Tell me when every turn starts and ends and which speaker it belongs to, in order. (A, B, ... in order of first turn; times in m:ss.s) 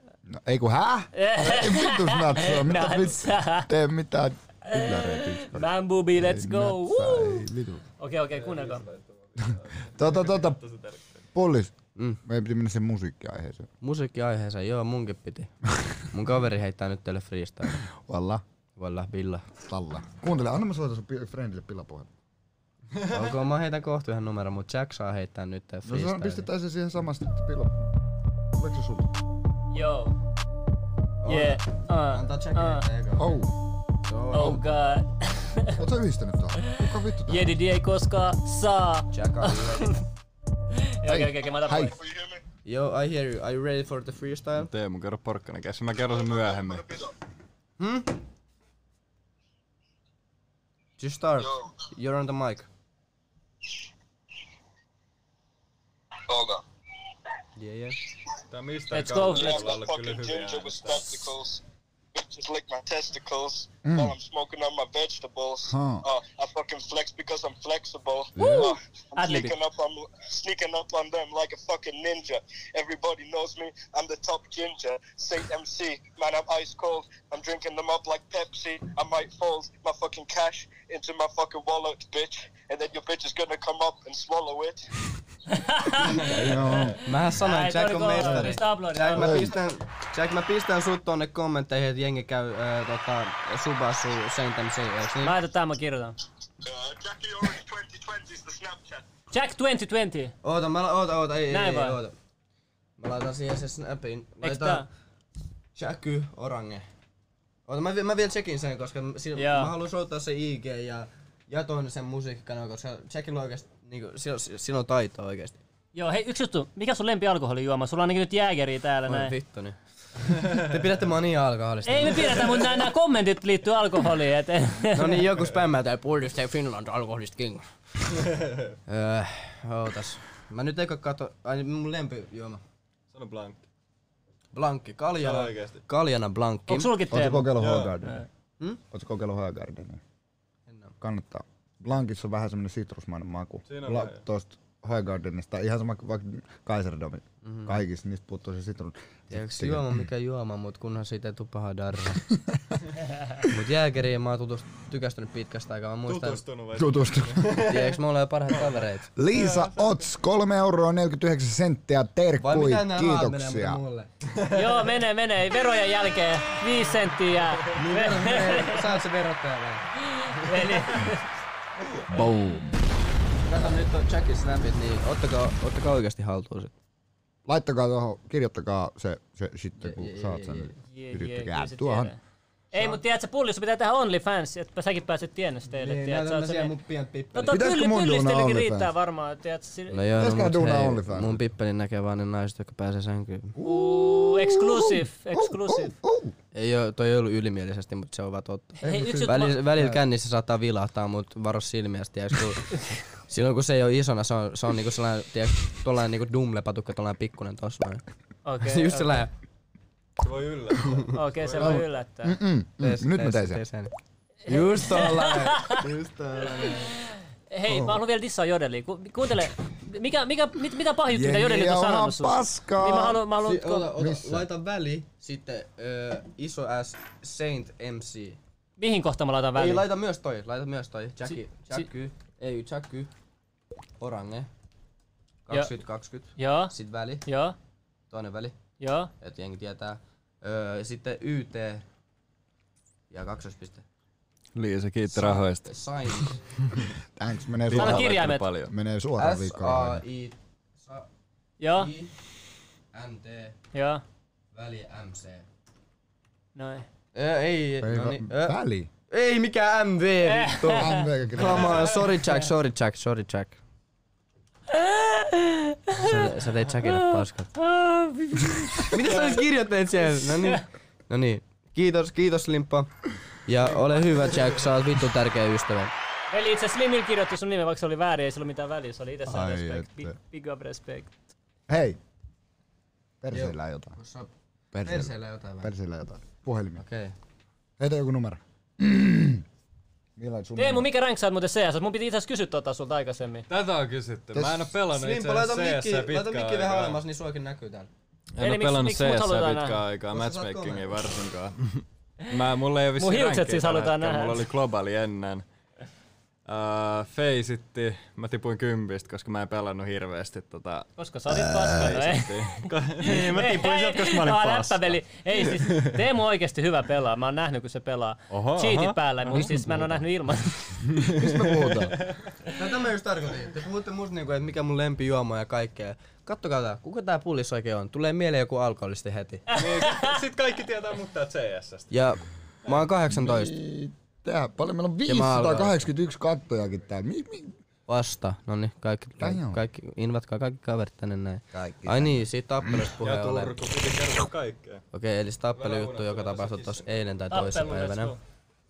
0:00.3-0:07.8 A
0:01.1-0:03.7 B
0:04.7-0:07.4 B
0:08.0-0:08.8 B
0:08.4-0:11.2 C
0:10.0-0:10.6 A
0:11.3-0:11.7 A
0:12.0-0:12.2 D
0:12.2-0:13.7 A
0:13.8-0:15.5 D
0:16.1-0:17.8 D
0:18.0-0:18.4 A
0:18.8-0:19.5 D
0:19.6-0:22.1 A
0:23.0-0:26.5 D
0:25.8-0:27.9 A
0:28.5-0:29.1 A
0:29.7-0:30.2 B
0:31.2-0:33.3 D
0:31.3-0:32.8 B
0:33.2-0:33.5 A
0:34.1-0:34.6 D
0:34.3-0:35.8 B
0:35.7-0:37.5 A
0:37.3-0:40.0 B
0:39.1-0:39.9 D
0:40.8-0:41.9 B
0:41.0-0:41.9 A
0:41.8-0:42.4 E
0:42.6-0:44.7 D
0:44.6-0:47.0 C
0:46.2-0:47.1 E
0:47.8-0:48.2 D
0:51.0-0:52.7 D
0:56.3-0:56.6 E
0:57.6-0:58.0 D
0:58.5-1:01.2 C
0:58.9-0:59.6 B
0:59.2-1:01.6 E
1:02.1-1:24.9 E
1:03.8-1:04.1 A
1:05.7-1:06.0 A
1:08.4-1:08.7 A
1:09.2-1:09.5 B
1:25.5-1:29.4 B
1:26.0-1:27.0 A
1:27.0-1:35.4 D
1:29.1-1:29.5 A
1:35.2-1:36.2 B
1:36.6-1:39.0 E
1:39.3-1:40.3 B
1:40.4-1:42.1 D
1:41.5-1:42.0 B
1:43.0-1:44.8 D
1:44.4-1:44.9 B
1:45.7-1:46.8 D
1:47.7-1:55.6 D
1:49.4-1:49.7 B
1:55.9-1:59.3 B
1:59.0-2:02.8 D
2:01.8-2:05.2 B
2:04.9-2:07.7 D
2:08.3-2:08.7 C
2:08.9-2:12.6 D
2:13.1-2:13.6 C
2:14.5-2:16.9 D
2:15.2-2:15.8 C
2:16.7-2:17.5 B
2:17.1-2:18.2 A
2:17.6-2:17.9 C
2:18.9-2:20.0 A
2:20.7-2:20.9 D
2:21.0-2:30.0 A
2:23.7-2:24.2 C
2:27.4-2:27.8 D
2:29.3-2:32.2 D
2:33.4-2:36.4 D
2:36.0-2:38.0 C
2:36.7-2:37.6 A
2:37.5-2:39.1 D
2:38.5-2:38.8 C
2:39.2-2:43.8 A
2:39.3-2:39.9 C
2:42.4-2:44.1 D
2:44.4-2:44.6 C
2:44.5-2:48.8 B
2:47.7-2:49.9 D
2:50.1-2:51.2 B
2:52.1-2:52.8 A
2:53.4-2:56.7 D
2:57.5-3:02.1 A
2:59.8-3:00.8 D
3:00.8-3:02.2 B
3:02.7-3:06.7 B
3:05.7-3:07.6 D
3:07.3-3:10.0 B
3:07.5-3:08.9 A
3:09.9-3:13.6 D
3:10.2-3:11.4 A
3:13.6-3:16.3 A
3:13.6-3:16.0 B
3:16.5-3:28.0 D
3:18.8-3:20.0 A
3:18.8-3:19.6 B
3:28.4-3:29.2 B
3:28.6-3:29.3 D
3:30.2-3:31.8 C
3:31.1-3:32.4 B
3:31.6-3:33.6 A
3:32.8-3:33.9 D
3:34.5-3:36.9 D
3:34.7-3:35.8 B
3:37.5-3:43.9 B
3:37.7-3:38.0 A
3:41.1-3:43.2 A
3:43.4-3:48.4 D
3:43.9-3:44.4 A
3:48.8-3:49.8 B
3:49.6-3:53.1 D
3:54.0-3:54.5 D
3:55.4-3:57.2 D
3:56.4-3:56.7 B
3:57.2-3:57.6 B
3:58.1-3:58.6 D
3:58.8-3:59.1 B
3:59.2-4:01.8 D
4:03.1-4:03.8 D
4:04.5-4:05.7 C
4:05.1-4:06.4 D
4:07.2-4:10.0 A
4:07.7-4:08.7 C
4:07.7-4:08.4 B
4:09.2-4:11.1 D
4:11.6-4:11.9 B
4:11.7-4:12.2 D
4:12.9-4:13.6 D
4:13.7-4:14.0 B
4:14.5-4:15.5 D
4:16.6-4:16.8 B
4:17.1-4:23.6 D
4:17.8-4:18.9 A
4:20.3-4:21.0 B
4:20.7-4:21.9 A
4:24.7-4:26.3 B
4:25.9-4:27.5 D
4:26.8-4:29.0 B
4:28.9-4:32.9 D
4:33.4-4:35.9 D
4:36.3-4:41.1 B
4:39.3-4:40.2 A
4:41.7-4:42.0 A
4:43.2-4:43.9 A
4:43.3-4:44.3 D
4:44.7-4:46.8 A
4:44.8-4:45.7 D
4:46.8-4:47.1 D
4:47.8-4:49.4 A
4:50.2-4:50.9 A
4:50.6-4:53.4 B
4:53.5-4:57.0 C
4:54.4-4:54.6 A
4:54.9-4:57.9 D
4:58.3-5:05.4 C
4:58.4-4:59.8 B
5:00.1-5:01.0 D
5:03.0-5:04.4 B
5:06.4-5:15.9 C
5:11.0-5:20.7 B
5:18.3-5:19.5 C
5:20.9-5:22.0 A
5:21.0-5:22.2 C
5:22.6-5:29.5 D
5:29.5-5:32.0 C
5:29.5-5:30.1 B
5:31.9-5:33.5 D
5:33.1-5:37.5 A
5:35.0-5:35.8 D
5:37.9-5:43.5 D
5:39.2-5:39.6 A
5:41.5-5:42.2 A
5:43.0-5:44.8 C
5:44.9-5:48.1 D
5:45.5-5:47.2 C
5:47.3-5:48.2 B